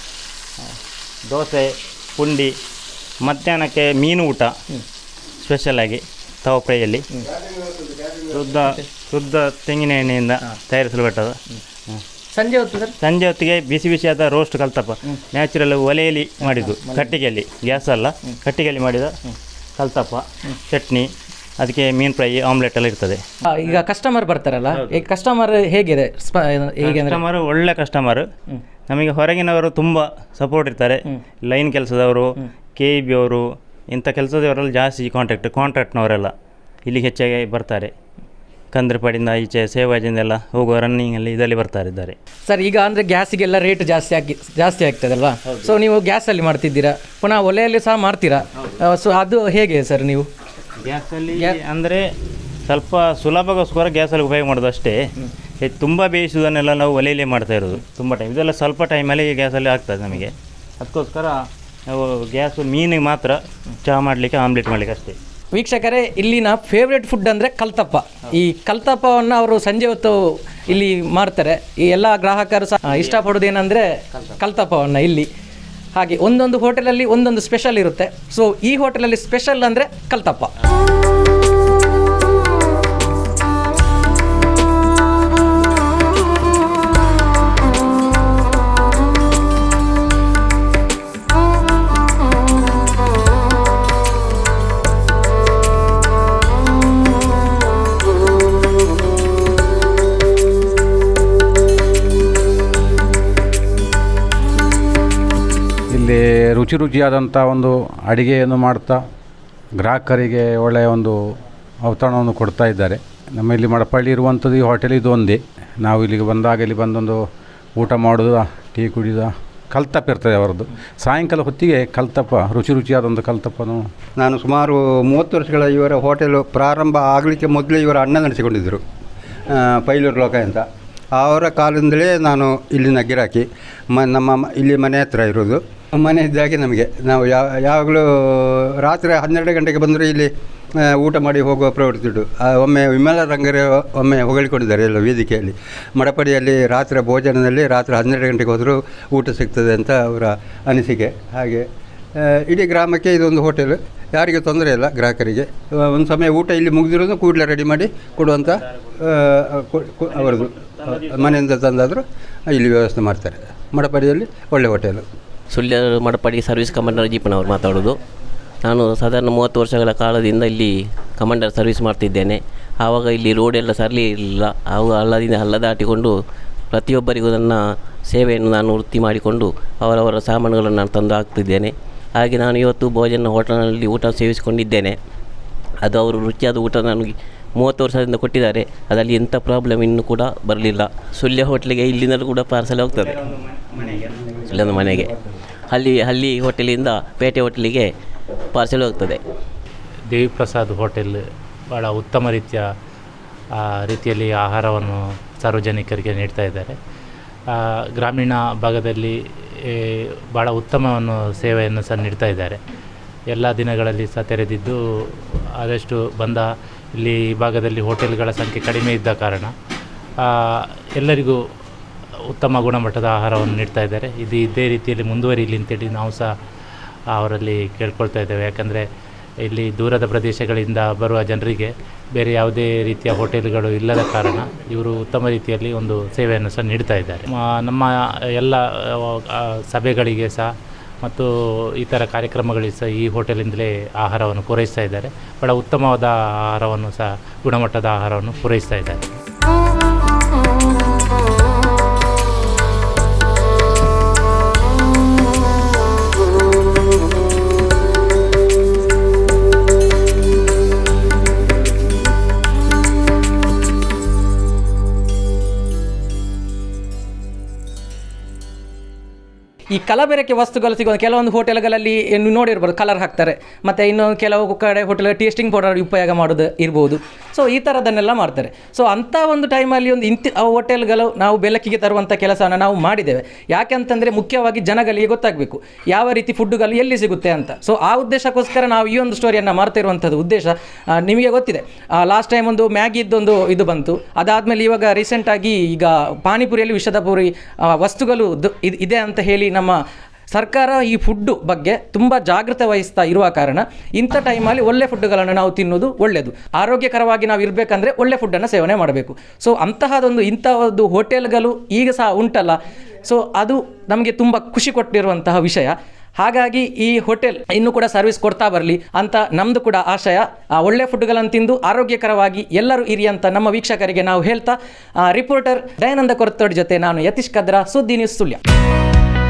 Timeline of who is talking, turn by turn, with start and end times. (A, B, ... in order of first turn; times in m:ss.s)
0:01.3-0:02.5 A
0:03.2-0:04.5 A
0:05.4-0:07.0 A
0:08.3-0:11.4 A
0:12.3-0:12.9 B
0:13.0-0:19.2 A
0:19.8-0:21.1 A
0:21.6-0:23.2 A
0:23.5-0:27.2 B
0:26.8-0:28.3 A
0:28.9-0:36.3 A
0:36.8-0:37.9 A
0:38.7-0:42.2 A
0:42.5-0:50.3 B
0:50.8-0:52.0 A
0:52.7-0:55.0 A
0:55.6-1:01.4 A
1:01.9-1:05.2 A
1:05.5-1:15.3 B
1:15.9-1:20.5 B
1:45.9-1:49.0 C
1:49.8-1:51.2 C
1:51.8-1:57.2 C
1:57.8-2:03.8 C
2:04.2-2:08.8 D
2:09.5-2:10.6 D
2:11.2-2:20.3 D
2:20.8-2:45.0 D
2:45.5-2:48.0 E
2:48.6-2:56.1 E
2:56.7-2:57.6 E
2:58.1-3:04.9 E
3:05.8-3:13.2 E
3:12.9-3:14.7 A
3:14.5-3:15.1 E
3:15.7-3:17.9 E
3:18.5-3:19.2 E
3:20.1-3:21.2 F
3:21.7-3:22.6 F
3:23.6-3:26.8 F
3:27.5-3:32.6 F
3:33.3-3:39.5 F
3:40.2-3:41.4 F
3:42.3-3:46.3 F
3:47.1-3:48.8 F
3:49.4-4:00.5 F
4:01.8-4:09.1 F
4:29.7-4:59.8 B
5:00.3-5:28.4 B